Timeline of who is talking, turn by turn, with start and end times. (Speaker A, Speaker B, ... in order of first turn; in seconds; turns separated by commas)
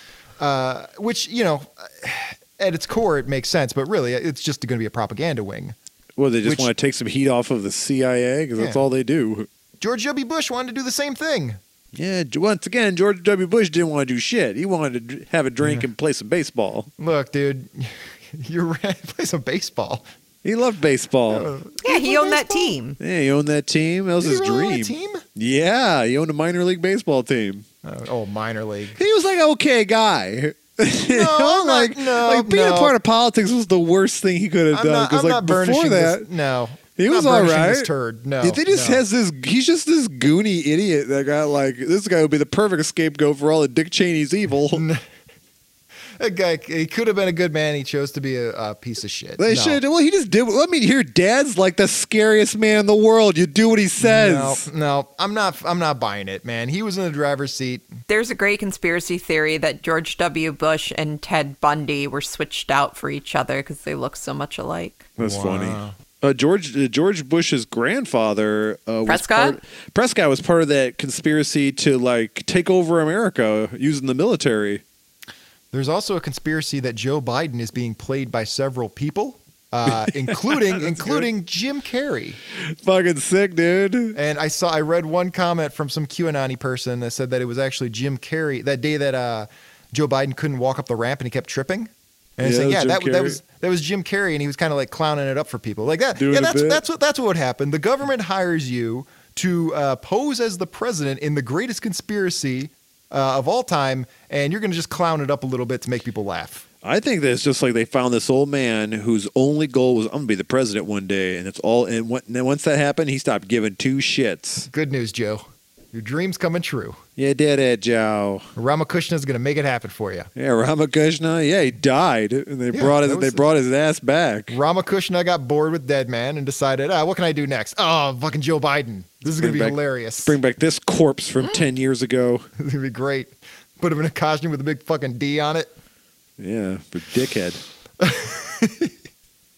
Speaker A: 0.4-5.8, Speaker B: 6.2-9.5, Speaker A: 6.4-6.7, Speaker A: 8.6-8.8, Speaker A: 9.8-11.6, Speaker B: 11.9-16.9, Speaker A: 15.6-15.9, Speaker A: 17.0-20.1, Speaker B: 20.4-21.5, Speaker A: 21.3-22.7, Speaker C: 21.8-23.0, Speaker B: 23.0-27.6, Speaker A: 24.2-25.2, Speaker A: 27.8-29.0, Speaker B: 29.0-36.3, Speaker A: 31.1-33.0, Speaker A: 34.7-39.0, Speaker B: 37.0-37.9, Speaker B: 38.4-44.8, Speaker A: 44.7-45.0, Speaker A: 46.2-49.8, Speaker B: 49.4-54.6, Speaker A: 54.0-57.9, Speaker C: 58.1-65.0, Speaker B: 65.2-74.8, Speaker A: 65.2-65.9, Speaker C: 69.0-69.6, Speaker A: 75.7-82.4, Speaker B: 79.9-81.3, Speaker B: 82.8-84.2, Speaker A: 84.1-106.6, Speaker B: 92.4-93.4, Speaker B: 96.2-96.8, Speaker B: 106.8-114.7, Speaker A: 114.7-117.0, Speaker B: 117.2-118.5, Speaker A: 118.5-120.3, Speaker B: 120.4-124.6, Speaker A: 122.7-123.5, Speaker A: 124.5-130.4, Speaker B: 129.4-132.5, Speaker A: 132.6-135.7, Speaker B: 136.4-137.6, Speaker A: 138.0-138.9